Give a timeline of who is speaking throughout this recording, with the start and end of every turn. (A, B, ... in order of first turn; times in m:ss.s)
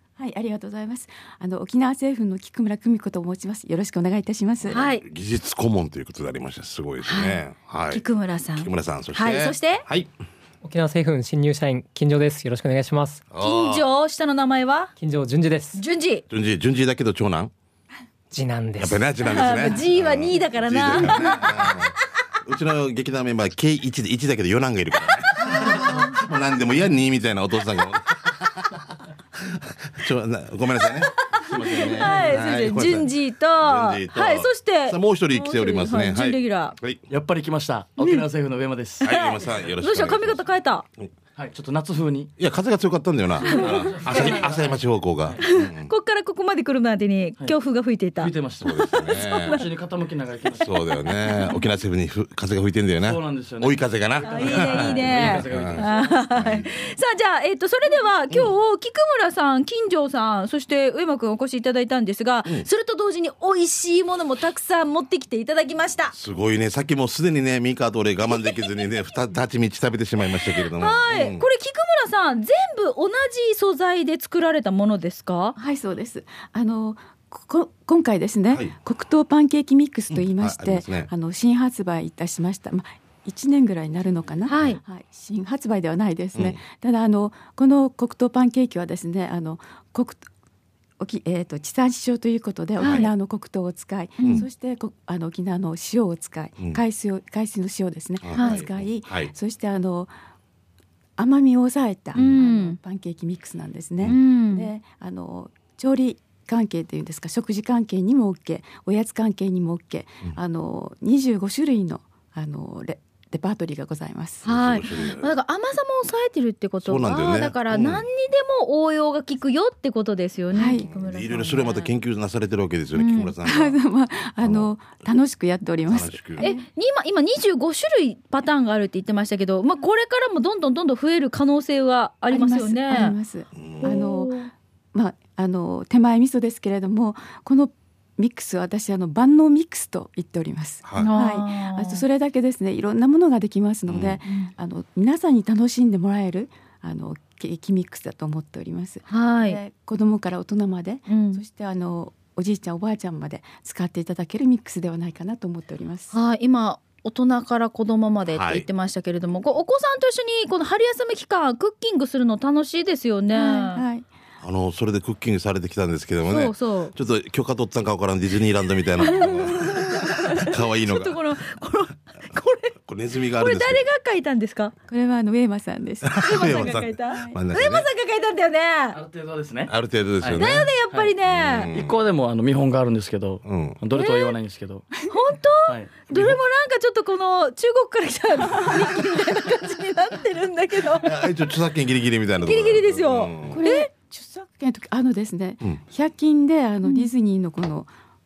0:00.2-0:04.8 A
0:04.6-0:08.0 B
0:04.7-0:05.0 C
0:07.0-0:09.8 C
0:08.6-0:10.1 B
0:10.6-0:13.3 D
0:13.3-0:13.8 B
0:13.4-0:14.9 C
0:15.0-0:15.8 D
0:15.7-0:16.2 C
0:16.3-0:17.5 B
0:18.3-0:19.1 D
0:18.8-0:28.8 B
0:19.2-0:21.9 C
0:25.4-0:26.2 C
0:29.4-0:37.0 B
0:30.8-0:36.7 C
0:37.1-0:39.1 E
0:38.0-0:38.2 C
0:39.0-0:40.4 B
0:39.0-0:40.8 C
0:41.4-0:42.3 E
0:42.4-0:45.9 B
0:43.4-0:43.7 C
0:43.5-0:44.7 E
0:45.4-0:49.6 C
0:48.2-0:51.0 E
0:48.6-0:49.6 B
0:50.6-0:56.7 B
0:51.2-0:51.6 C
0:53.0-0:56.2 E
0:54.2-1:06.1 C
1:06.1-1:11.4 B
1:10.5-1:15.6 C
1:15.6-1:30.2 A
1:20.1-1:21.1 B
1:24.5-1:24.8 C
1:31.0-1:40.1 A
1:32.8-1:33.1 C
1:32.8-1:33.1 B
1:34.2-1:34.5 C
1:38.2-1:39.3 B
1:38.3-1:38.6 C
1:41.2-1:54.4 A
1:42.2-1:42.8 C
1:44.0-1:44.7 C
1:54.4-1:55.3 B
1:54.4-2:01.9 C
1:56.8-1:58.0 B
2:00.5-2:00.9 A
2:00.8-2:03.8 B
2:02.9-2:03.3 C
2:03.4-2:06.6 A
2:04.4-2:04.7 B
2:05.8-2:06.5 B
2:06.4-2:13.2 C
2:12.3-2:14.4 A
2:13.6-2:14.0 B
2:13.8-2:14.5 C
2:14.9-2:36.2 A
2:20.8-2:21.1 B
2:21.0-2:22.0 C
2:23.9-2:24.2 B
2:24.2-2:24.5 C
2:29.1-2:29.6 C
2:31.1-2:31.4 C
2:36.1-2:43.8 C
2:38.3-2:38.6 B
2:43.3-2:44.1 A
2:44.4-2:51.2 B
2:46.2-2:46.9 C
2:49.0-2:52.8 C
2:52.8-2:53.8 B
2:53.4-2:54.7 C
2:54.9-2:57.4 A
2:56.0-2:57.9 B
2:56.2-2:59.0 C
2:58.9-3:01.1 E
2:59.7-3:00.7 B
3:00.3-3:01.7 C
3:01.2-3:02.0 B
3:01.7-3:04.9 E
3:03.4-3:03.8 B
3:03.9-3:04.4 C
3:05.1-3:11.1 C
3:05.7-3:06.0 E
3:06.1-3:06.4 B
3:11.0-3:13.6 B
3:12.4-3:13.9 C
3:13.5-3:17.9 A
3:16.8-3:17.1 C